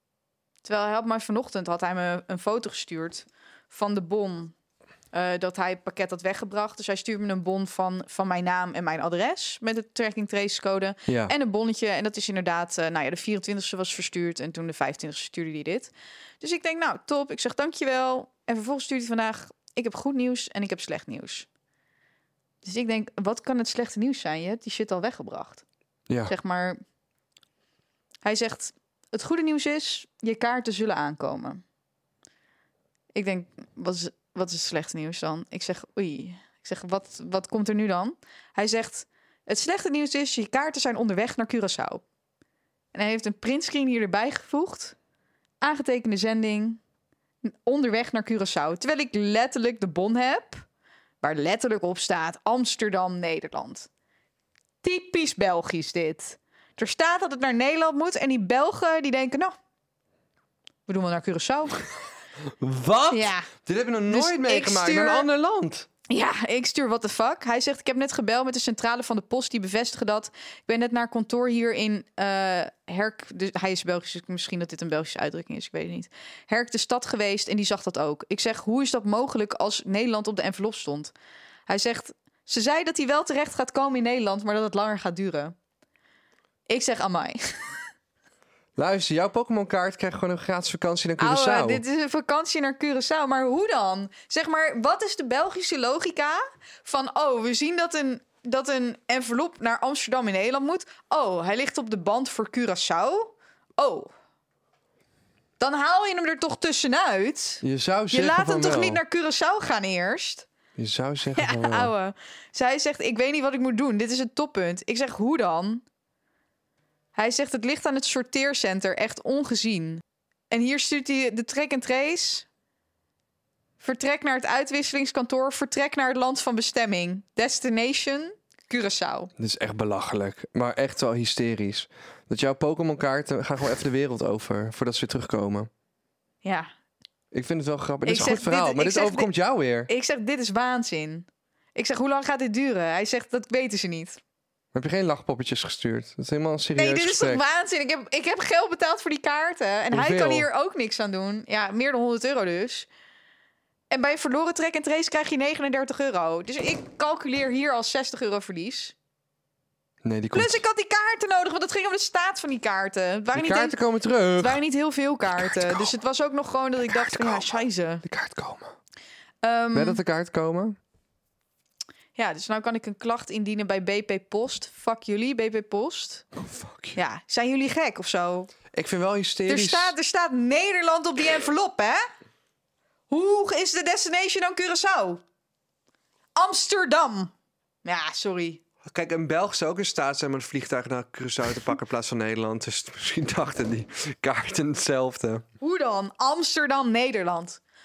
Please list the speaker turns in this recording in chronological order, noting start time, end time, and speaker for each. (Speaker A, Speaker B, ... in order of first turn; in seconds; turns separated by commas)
Speaker A: 0.6-4.5, Speaker A: 5.1-21.5, Speaker B: 11.1-11.3, Speaker A: 22.6-25.6, Speaker A: 26.2-26.8, Speaker A: 28.2-31.6, Speaker A: 33.1-42.0, Speaker A: 42.9-44.9, Speaker A: 45.6-46.8, Speaker A: 47.4-50.6, Speaker A: 51.2-53.9, Speaker A: 54.8-59.5, Speaker A: 60.9-61.9, Speaker B: 62.6-65.9, Speaker A: 63.1-63.5, Speaker A: 64.1-65.3, Speaker A: 66.1-81.1, Speaker A: 81.7-85.5, Speaker A: 86.7-87.8, Speaker B: 88.8-91.8, Speaker A: 91.2-104.1, Speaker A: 105.6-110.5, Speaker B: 107.6-109.0, Speaker B: 110.8-111.9, Speaker A: 111.3-115.8, Speaker A: 117.1-122.5, Speaker A: 123.8-129.3, Speaker B: 129.4-135.7, Speaker A: 136.4-136.7, Speaker B: 137.3-139.9, Speaker A: 138.0-139.3, Speaker A: 139.9-144.2, Speaker B: 144.7-147.4, Speaker A: 146.8-152.9, Speaker B: 149.9-150.5, Speaker A: 153.9-158.9, Speaker B: 160.0-160.6, Speaker A: 160.3-163.8, Speaker B: 163.3-164.6, Speaker A: 164.4-168.0, Speaker B: 165.3-165.9, Speaker B: 166.9-168.7, Speaker A: 169.4-170.0, Speaker B: 169.7-170.8, Speaker A: 172.2-176.2, Speaker B: 176.3-177.0, Speaker A: 176.9-178.5, Speaker B: 178.7-179.9, Speaker A: 179.5-182.0, Speaker A: 183.1-185.2, Speaker A: 186.3-187.3, Speaker A: 187.8-188.6, Speaker B: 188.8-195.4, Speaker A: 195.6-197.6